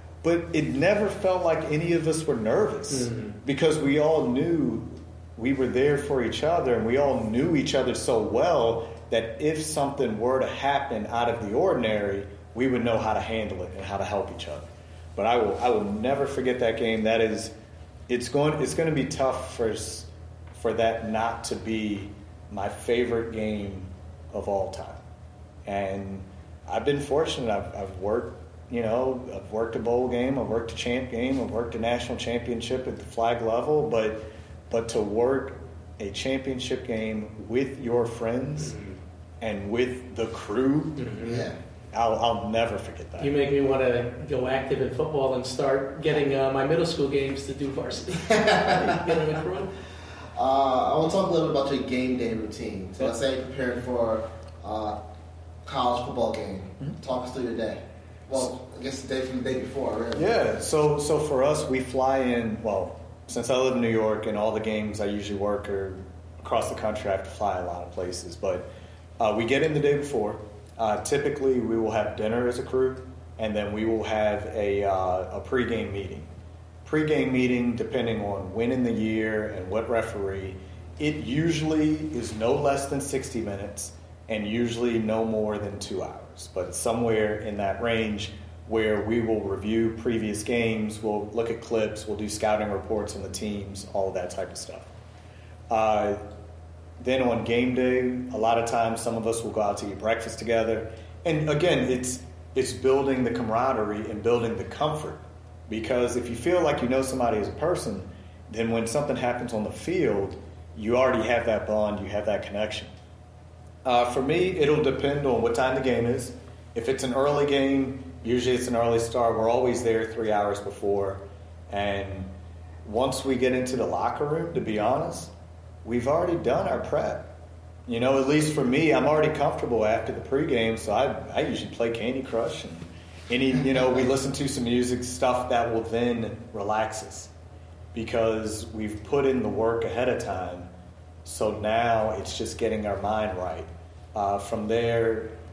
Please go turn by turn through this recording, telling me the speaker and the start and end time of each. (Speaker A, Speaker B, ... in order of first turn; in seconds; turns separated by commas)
Speaker A: 0.2-17.5, Speaker B: 2.9-3.4, Speaker A: 18.1-25.0, Speaker A: 25.6-38.8, Speaker B: 38.7-39.0, Speaker A: 39.4-41.2, Speaker B: 41.0-41.5, Speaker C: 41.2-41.6, Speaker A: 41.9-43.4, Speaker B: 43.2-49.7, Speaker C: 48.3-49.1, Speaker C: 50.4-55.0, Speaker C: 55.6-60.3, Speaker A: 60.2-68.7, Speaker A: 69.2-76.3, Speaker A: 76.8-94.9, Speaker A: 95.7-96.3, Speaker A: 97.0-112.9, Speaker A: 113.8-122.3, Speaker A: 122.8-125.3, Speaker A: 125.8-127.3, Speaker A: 127.9-137.3, Speaker A: 137.9-140.7, Speaker A: 141.2-145.3